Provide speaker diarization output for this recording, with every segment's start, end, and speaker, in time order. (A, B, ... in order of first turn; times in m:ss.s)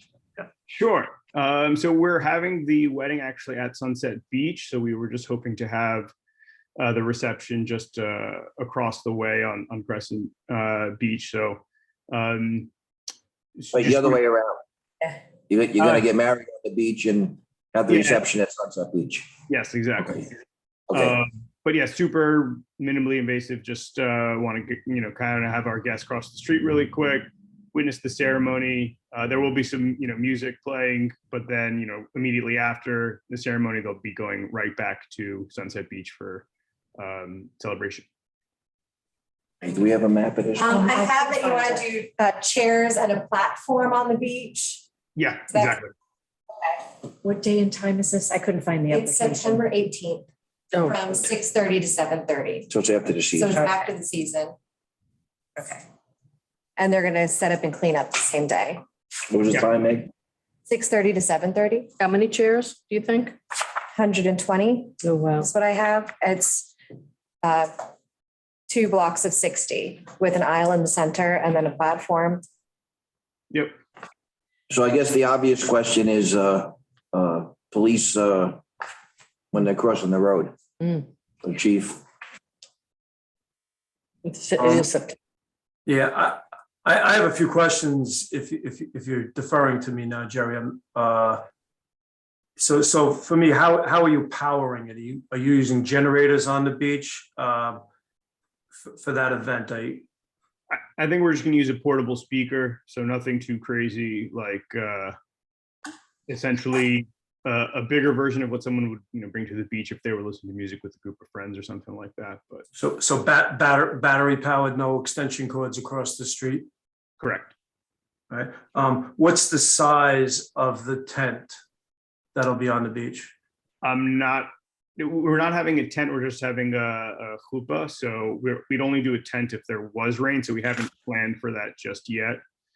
0:00.7-0:06.1 A
0:06.8-0:12.7 A
0:13.6-0:14.1 A
0:13.7-0:14.6 B
0:15.5-0:19.3 B
0:17.9-0:18.2 A
0:19.5-0:20.1 A
0:20.9-0:21.2 B
0:20.9-0:36.4 A
0:37.0-0:38.0 A
0:39.6-0:40.7 B
0:40.6-0:44.8 C
0:45.2-0:45.9 A
0:45.5-0:45.8 C
0:47.2-0:49.3 D
0:48.8-0:50.3 C
0:50.7-0:51.1 E
0:50.8-0:52.7 C
0:52.7-0:53.6 B
0:53.3-0:54.5 C
0:55.6-0:55.8 C
0:56.8-0:58.8 C
0:59.3-1:00.1 B
1:00.7-1:01.9 C
1:02.0-1:03.4 E
1:03.9-1:06.7 C
1:05.0-1:05.5 E
1:07.4-1:07.7 C
1:08.7-1:12.4 C
1:14.7-1:18.6 B
1:19.5-1:20.5 B
1:21.4-1:22.0 B
1:24.2-1:25.2 E
1:24.6-1:24.8 F
1:25.8-1:31.4 F
1:32.6-1:37.8 F
1:38.8-1:40.1 F
1:40.7-1:45.1 A
1:46.3-1:52.6 A
1:52.7-1:56.7 F
1:57.2-1:57.5 A
1:58.3-2:01.6 F
2:02.3-2:03.3 F
2:03.8-2:12.4 A